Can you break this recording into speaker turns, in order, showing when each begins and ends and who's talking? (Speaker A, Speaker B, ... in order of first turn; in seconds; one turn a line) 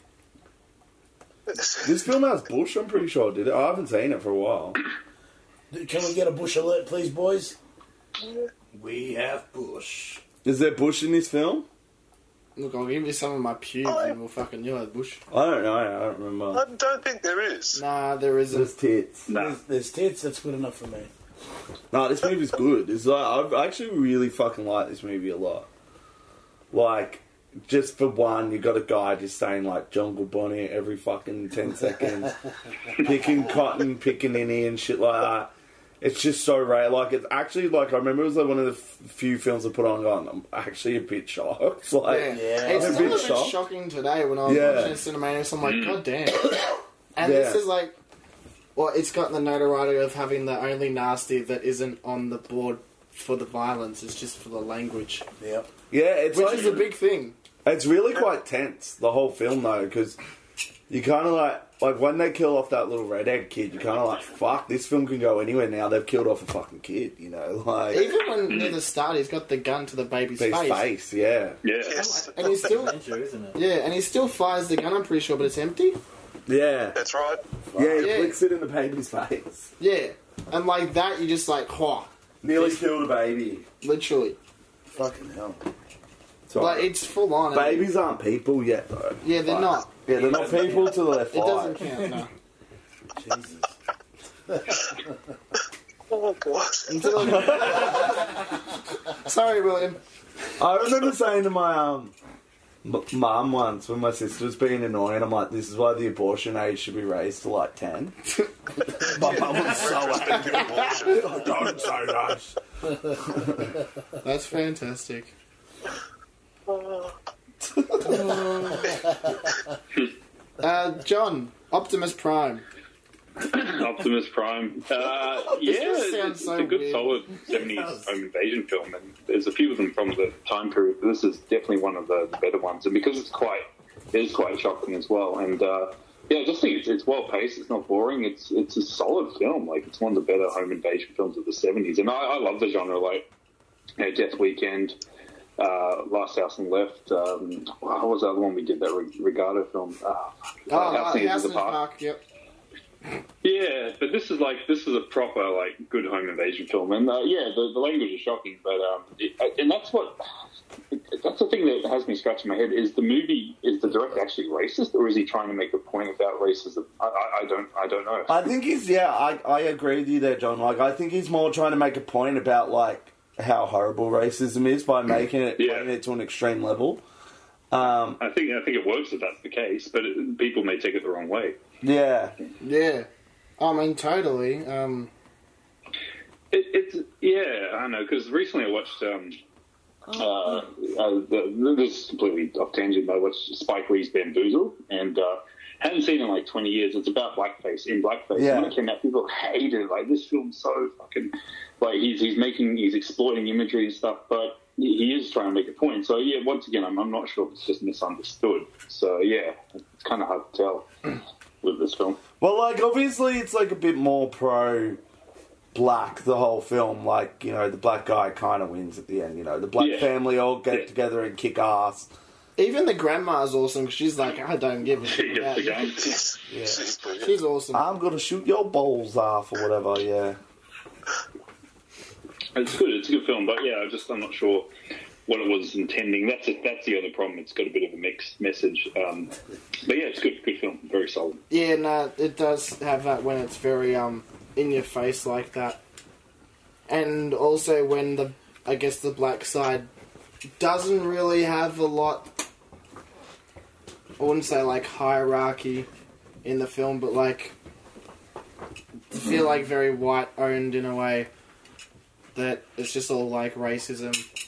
Speaker A: 1.5-2.0
Speaker B: 1.8-4.8
Speaker C: 5.7-7.6
Speaker D: 8.7-10.2
Speaker B: 10.4-11.7
Speaker E: 12.6-15.2
Speaker A: 13.8-14.2
Speaker B: 15.3-16.6
Speaker A: 16.5-17.8
Speaker E: 17.7-18.7
Speaker B: 18.5-19.2
Speaker F: 19.3-19.6
Speaker C: 19.3-21.1
Speaker B: 21.9-25.7
Speaker B: 26.7-32.3
Speaker B: 33.0-43.6
Speaker E: 42.0-48.0
Speaker C: 42.3-43.4
Speaker B: 44.4-45.0
Speaker F: 45.6-46.0
Speaker B: 47.2-47.7
Speaker E: 48.7-55.2
Speaker C: 55.4-55.7
Speaker B: 55.9-56.9
Speaker E: 56.3-57.3
Speaker B: 57.6-60.2
Speaker B: 60.9-68.1
Speaker E: 67.9-70.8
Speaker F: 68.5-68.8
Speaker B: 70.4-71.6
Speaker F: 71.6-72.2
Speaker A: 71.8-72.6
Speaker D: 71.9-73.6
Speaker E: 72.3-73.0
Speaker E: 73.5-76.0
Speaker B: 76.5-77.0
Speaker A: 76.9-77.4
Speaker C: 77.7-78.1
Speaker B: 77.7-79.7
Speaker E: 78.0-78.4
Speaker E: 79.8-82.8
Speaker B: 82.4-83.7
Speaker E: 83.8-84.4
Speaker C: 84.9-85.6
Speaker B: 86.5-86.9
Speaker E: 86.5-87.9
Speaker B: 87.5-91.8
Speaker E: 89.2-89.9
Speaker D: 90.1-91.0
Speaker E: 90.4-92.3
Speaker C: 93.2-93.7
Speaker C: 94.5-95.1
Speaker A: 96.1-97.3
Speaker E: 96.9-98.4
Speaker B: 97.1-98.2
Speaker E: 99.2-100.0
Speaker B: 100.6-102.1
Speaker B: 102.8-108.2
Speaker B: 109.0-112.5
Speaker A: 109.2-112.0
Speaker E: 110.3-110.9
Speaker E: 114.2-115.3
Speaker A: 116.7-117.1
Speaker B: 117.6-118.8
Speaker E: 118.0-118.9
Speaker E: 120.6-122.6
Speaker F: 123.4-143.3
Speaker E: 125.5-127.2
Speaker D: 127.4-128.1
Speaker F: 144.0-145.0
Speaker F: 145.6-151.8
Speaker E: 150.7-152.2
Speaker F: 153.4-160.2
Speaker F: 160.9-168.4
Speaker B: 168.3-177.0
Speaker F: 175.6-175.9
Speaker B: 177.7-178.2
Speaker F: 178.2-181.6
Speaker B: 181.8-182.3
Speaker E: 182.6-183.1
Speaker E: 183.6-185.1
Speaker F: 186.5-189.4
Speaker F: 190.1-210.9
Speaker B: 198.3-198.8
Speaker F: 211.6-212.2
Speaker B: 212.4-215.0
Speaker B: 215.7-222.1
Speaker F: 219.8-220.1
Speaker E: 222.6-226.0
Speaker F: 225.0-226.2
Speaker A: 226.0-227.3
Speaker B: 226.5-226.8
Speaker E: 227.2-227.8
Speaker B: 227.7-230.4
Speaker F: 232.5-234.7
Speaker F: 235.3-241.4
Speaker E: 241.5-245.8
Speaker E: 246.9-249.9
Speaker E: 250.6-252.3
Speaker E: 254.2-255.9
Speaker E: 256.4-257.5
Speaker E: 259.1-261.3
Speaker E: 262.3-264.2